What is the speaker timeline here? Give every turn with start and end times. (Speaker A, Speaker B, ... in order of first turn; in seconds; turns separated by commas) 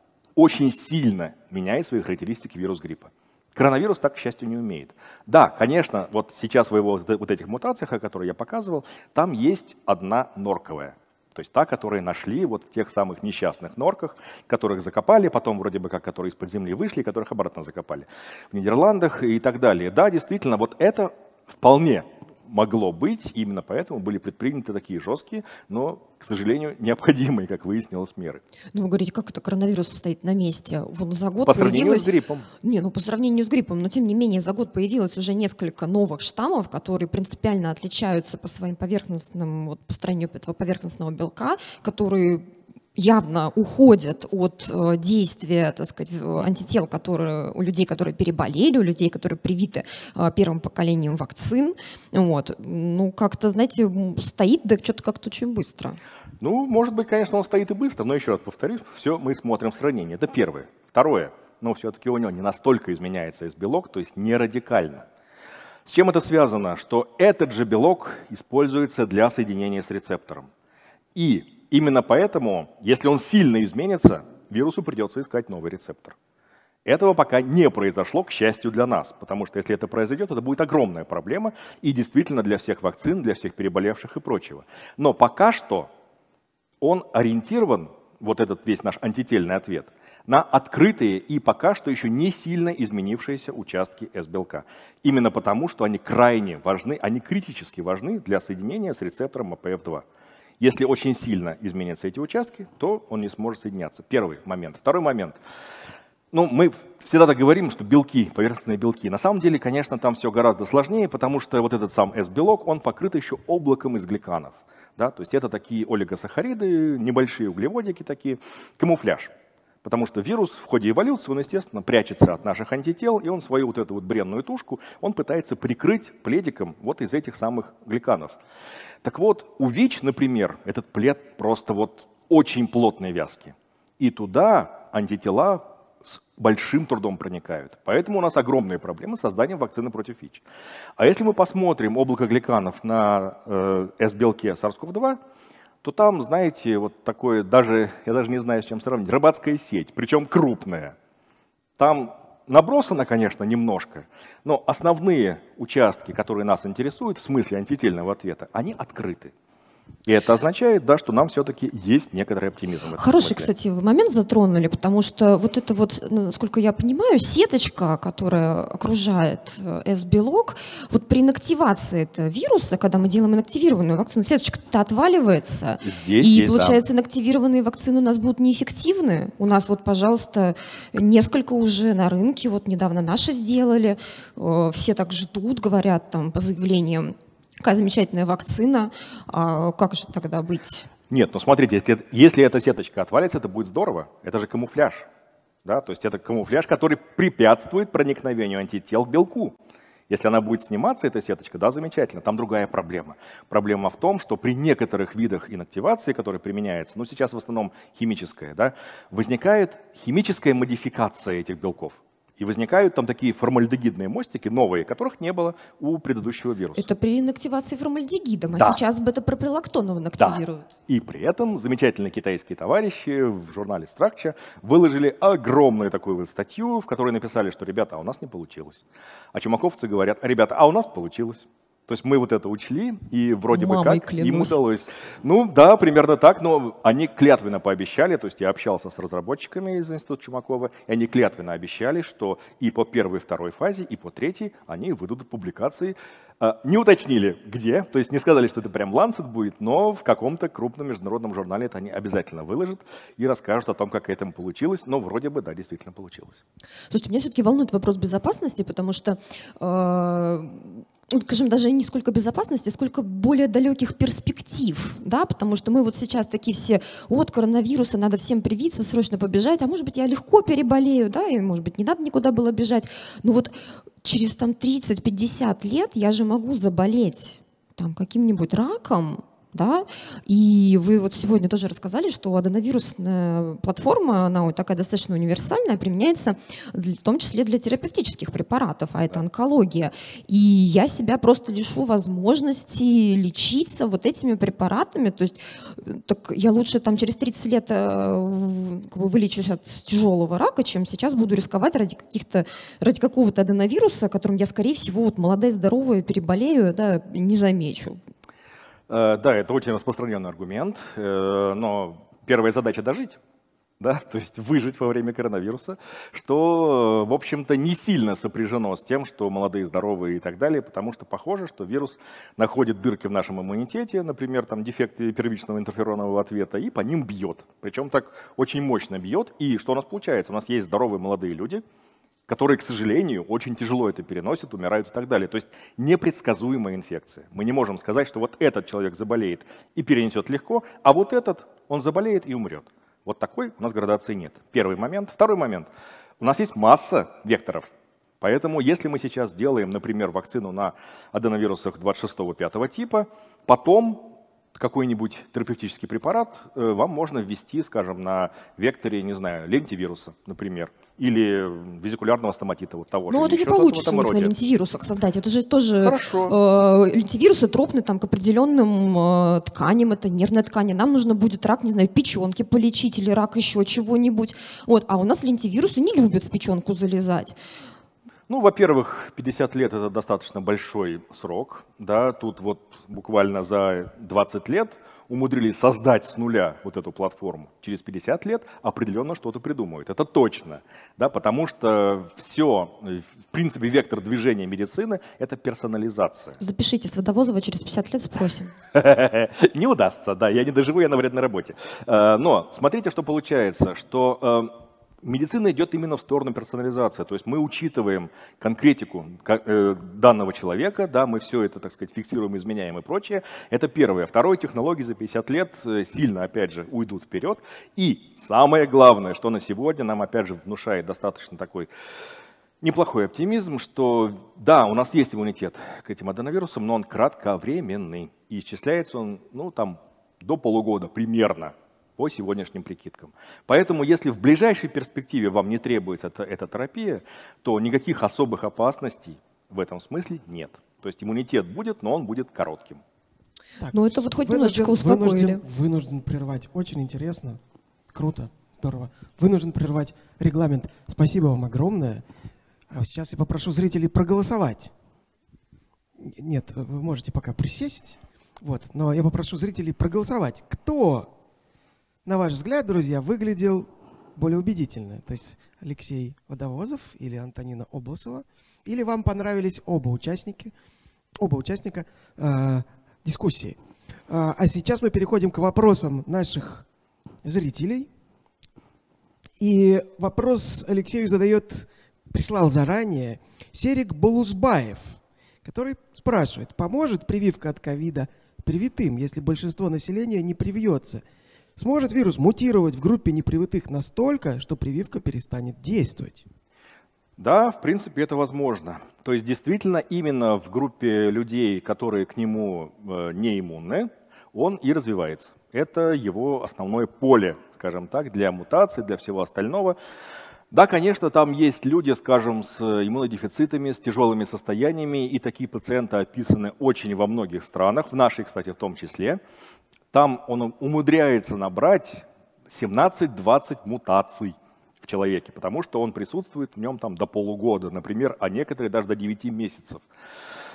Speaker A: 0.3-28.4, Speaker B: 28.7-32.1, Speaker A: 31.4-32.5, Speaker B: 32.6-56.0, Speaker A: 56.4-65.0, Speaker A: 65.8-70.5, Speaker A: 71.1-76.2, Speaker A: 76.8-85.9, Speaker A: 86.8-100.0, Speaker A: 100.6-105.4, Speaker A: 106.3-119.3, Speaker A: 119.8-128.4, Speaker A: 129.0-140.4, Speaker A: 141.0-145.2, Speaker A: 145.8-150.9, Speaker A: 151.8-159.3, Speaker A: 160.1-163.5, Speaker B: 163.0-190.9, Speaker A: 175.8-176.8, Speaker A: 191.1-195.1, Speaker A: 195.6-199.6, Speaker A: 200.1-216.9, Speaker B: 216.8-220.7, Speaker A: 220.2-228.8, Speaker A: 229.3-256.4, Speaker B: 233.5-234.6, Speaker B: 256.9-308.0, Speaker A: 308.9-313.2, Speaker A: 313.8-331.6, Speaker A: 332.3-345.7, Speaker A: 346.2-347.7, Speaker A: 348.2-364.3, Speaker B: 363.1-377.4, Speaker A: 365.8-366.4, Speaker A: 378.3-396.4, Speaker B: 396.4-398.5, Speaker A: 398.7-404.5, Speaker A: 405.0-421.7, Speaker A: 422.6-442.8, Speaker C: 443.6-447.4, Speaker B: 443.7-445.4, Speaker C: 447.9-452.0, Speaker C: 452.7-454.7, Speaker C: 456.0-461.1, Speaker C: 462.0-470.5, Speaker C: 471.1-476.6, Speaker C: 477.2-477.9, Speaker C: 479.4-491.0, Speaker C: 491.6-496.2, Speaker A: 497.2-509.8, Speaker A: 510.5-519.2, Speaker A: 519.9-529.8